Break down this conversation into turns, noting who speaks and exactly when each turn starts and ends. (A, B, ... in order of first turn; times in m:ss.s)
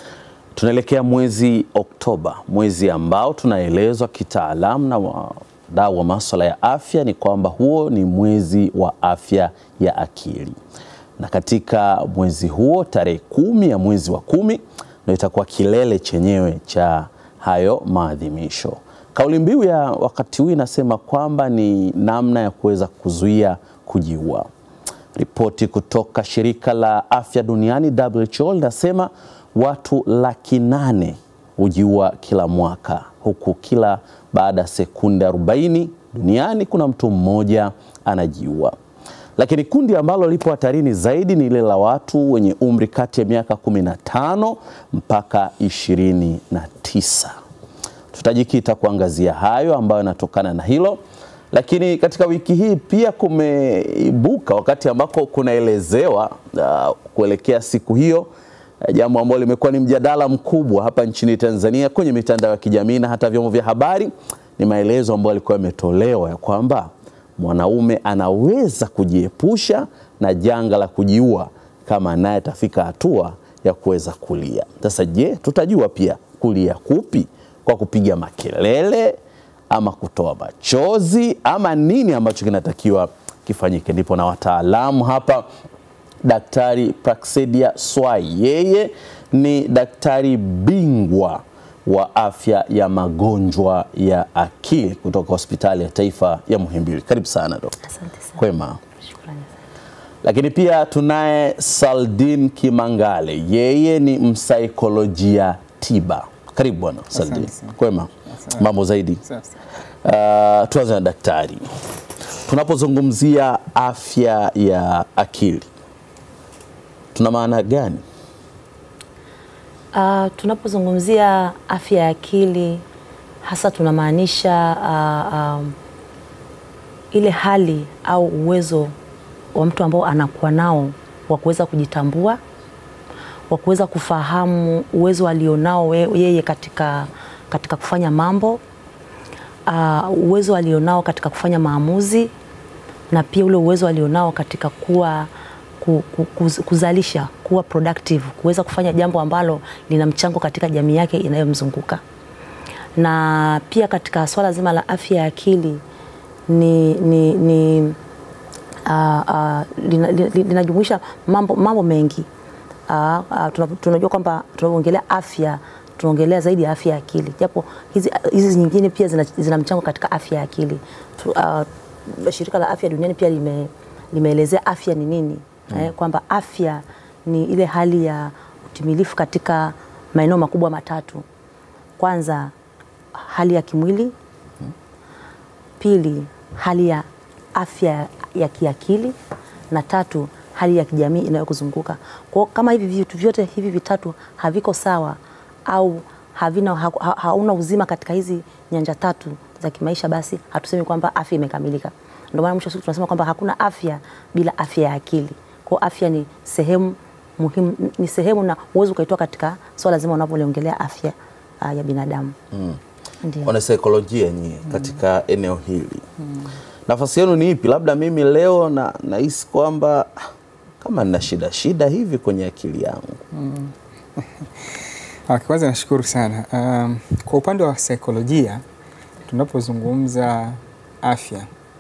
0:00.6-0:10.6 A
0:11.2-0:24.5 A
0:25.2-0:38.8 A
0:39.4-0:47.4 A
0:48.1-0:51.0 A
0:51.5-0:58.3 A
0:58.8-1:19.2 A
1:19.7-1:25.5 A
1:26.2-1:37.8 A
1:37.9-1:38.4 B
1:38.4-1:38.8 A
1:39.1-1:39.5 B
1:40.2-1:49.2 A
1:47.1-1:47.8 C
1:48.3-1:48.7 C
1:49.2-1:49.5 C
1:50.0-1:51.6 A
1:52.4-1:55.7 A
1:57.1-1:58.0 A
1:59.9-2:02.8 B
2:03.4-2:05.8 B
2:07.1-2:08.9 B
2:09.6-2:12.4 B
2:13.5-2:18.6 B
2:19.7-2:22.3 B
2:23.1-2:25.3 B
2:25.8-2:32.0 B
2:33.0-2:35.8 B
2:36.5-2:38.0 B
2:38.9-2:42.3 B
2:42.9-3:01.2 B
3:02.0-3:02.5 B
3:03.2-3:04.1 B
3:05.8-3:09.2 B
3:09.7-3:32.4 B
3:32.5-3:32.8 A
3:33.2-3:33.5 B
3:33.4-3:36.0 A
3:36.9-3:40.1 A
3:40.8-3:43.2 A
3:43.3-3:44.5 C
3:45.3-3:48.6 C
3:49.3-3:51.5 C